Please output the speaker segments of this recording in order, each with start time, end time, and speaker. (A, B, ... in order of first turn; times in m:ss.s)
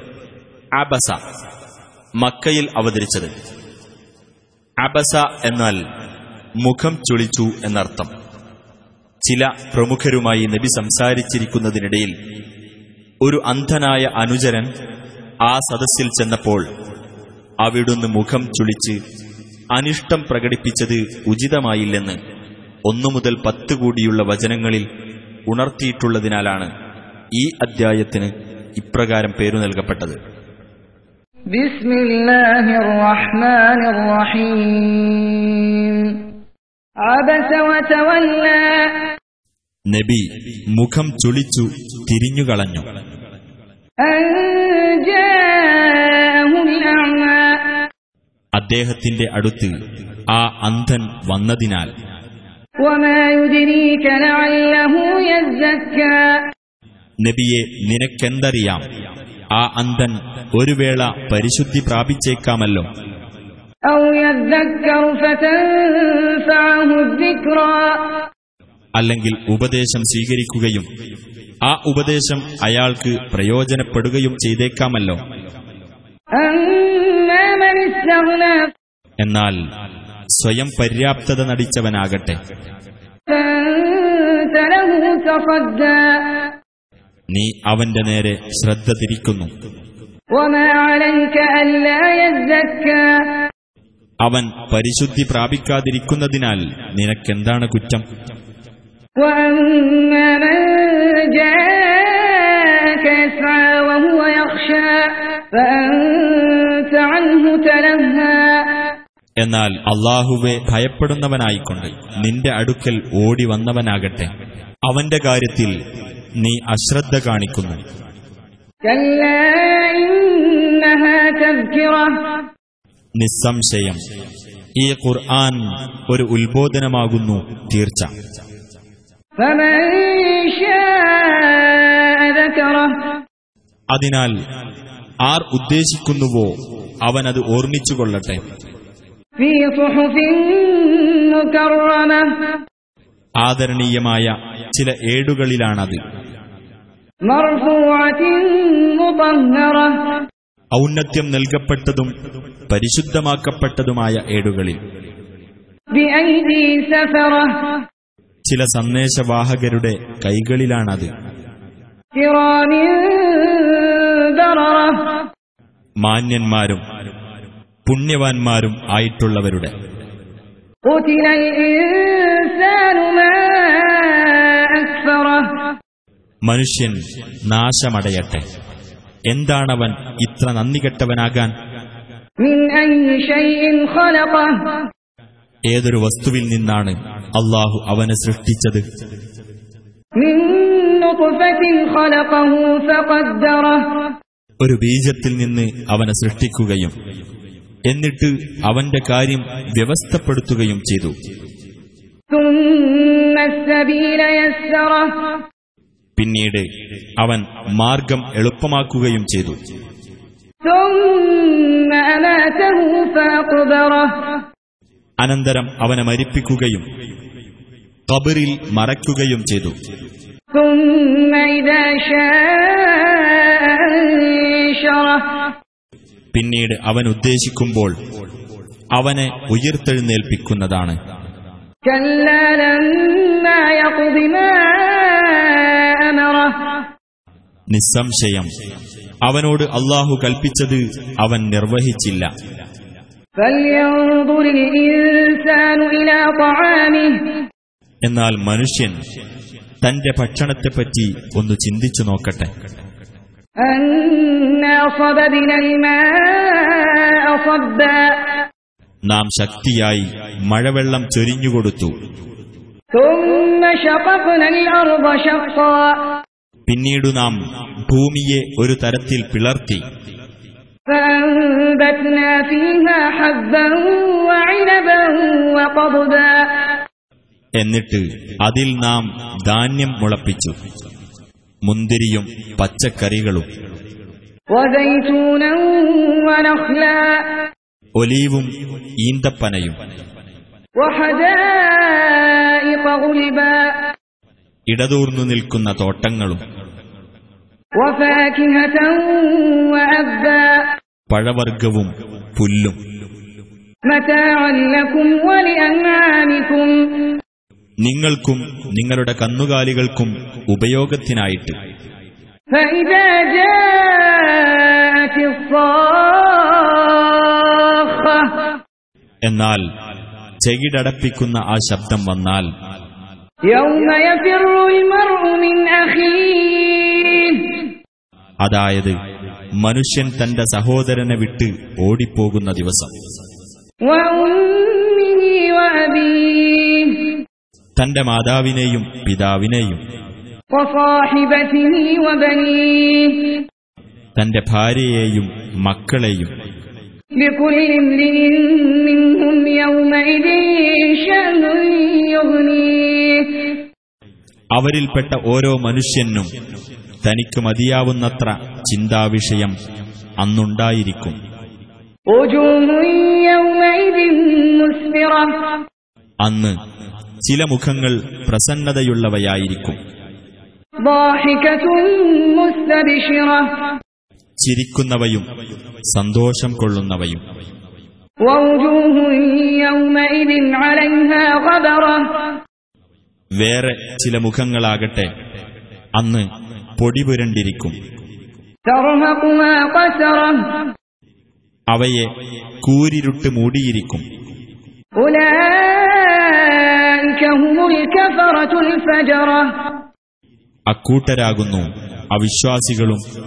0:00.8-0:01.2 A
0:02.2-0:03.3 A
0:04.8-0:05.8 A
0:06.6-0:08.1 A
0:09.2-0:12.1 A
0:13.2-0:14.7 A
0:15.5-0:16.6 A
0:17.6-0:19.0 A
0:19.7-0:22.2 A
0:22.9-0:24.8 A
0:25.5-0:26.7 A
0:27.4-0:30.2 A
0:31.5-0:36.3 B
0:37.0-0:39.1 B
0:39.9-0:40.2 A
0:40.8-0:42.8 A
0:44.0-0:47.9 B
0:48.6-0:49.7 A
0:50.3-0:51.9 A
0:52.8-0:56.4 B
0:57.2-0:58.8 A
0:59.6-1:02.8 A
1:03.9-1:08.2 B
1:09.0-1:10.9 A
1:11.7-1:15.2 A
1:16.3-1:18.7 B
1:19.2-1:19.6 A
1:20.3-1:22.4 A
1:23.3-1:26.5 B
1:27.3-1:29.5 A
1:30.3-1:33.5 B
1:34.2-1:38.0 A
1:39.2-1:49.0 B
1:49.4-1:54.3 A
1:54.8-1:55.8 A
1:56.4-1:57.8 A
1:58.9-2:02.4 B
2:03.2-2:04.0 A
2:04.8-2:08.1 A
2:09.4-2:13.2 B
2:13.9-2:14.3 A
2:15.3-2:16.5 A
2:17.0-2:18.4 A
2:19.4-2:22.5 B
2:23.4-2:26.0 A
2:27.3-2:30.2 B
2:30.8-2:32.1 A
2:32.7-2:34.8 A
2:35.9-2:37.8 B
2:38.4-2:41.1 A
2:42.2-2:45.2 B
2:46.0-2:46.8 A
2:47.8-2:49.7 A
2:50.9-2:55.4 B
2:56.5-2:57.0 A
2:57.5-2:58.4 A
2:59.3-3:01.5 A
3:02.4-3:04.7 B
3:05.7-3:08.8 A
3:10.2-3:14.0 B
3:14.6-3:16.9 A
3:17.9-3:21.1 A
3:22.3-3:25.4 B
3:26.2-3:26.6 A
3:27.2-3:29.6 A
3:30.6-3:34.4 B
3:35.2-3:36.8 A
3:38.1-3:39.7 A
3:40.5-3:45.5 B
3:46.3-3:47.9 A
3:49.0-3:51.0 A
3:51.8-3:56.9 B
3:57.7-3:58.5 A
3:59.2-4:02.3 A
4:03.4-4:07.4 B
4:08.0-4:08.9 A
4:09.8-4:12.5 A
4:13.6-4:18.4 B
4:19.1-4:21.9 A
4:22.9-4:26.0 B
4:26.7-4:27.4 A
4:27.9-4:29.8 A
4:30.9-4:36.8 B
4:37.6-4:40.5 A
4:41.6-4:43.4 A
4:44.5-4:47.4 B
4:48.0-4:48.5 A
4:49.0-4:49.7 A
4:50.8-4:53.9 B
4:54.7-4:56.4 A
4:57.8-5:00.7 B
5:01.1-5:02.8 A
5:03.9-5:07.2 B
5:07.8-5:11.5 A
5:12.5-5:18.6 B
5:19.2-5:19.6 A
5:20.4-5:22.5 A
5:23.5-5:27.7 B
5:28.4-5:28.9 A
5:29.6-5:32.9 A
5:33.8-5:37.2 B
5:37.8-5:39.8 A
5:40.5-5:43.4 B
5:44.2-5:46.3 A
5:47.2-5:53.6 B
5:54.5-5:56.3 A
5:57.0-5:59.5 A
6:00.2-6:01.1 A
6:02.1-6:05.6 B
6:06.2-6:06.5 A
6:07.2-6:09.8 A
6:10.8-6:13.4 B
6:14.4-6:15.2 A
6:15.9-6:17.2 A
6:18.2-6:22.4 B
6:23.4-6:25.1 A
6:26.0-6:26.2 A
6:26.8-6:27.7 A
6:28.6-6:30.7 B
6:31.7-6:32.1 A
6:32.6-6:34.0 A
6:35.0-6:39.8 B
6:40.7-6:43.0 A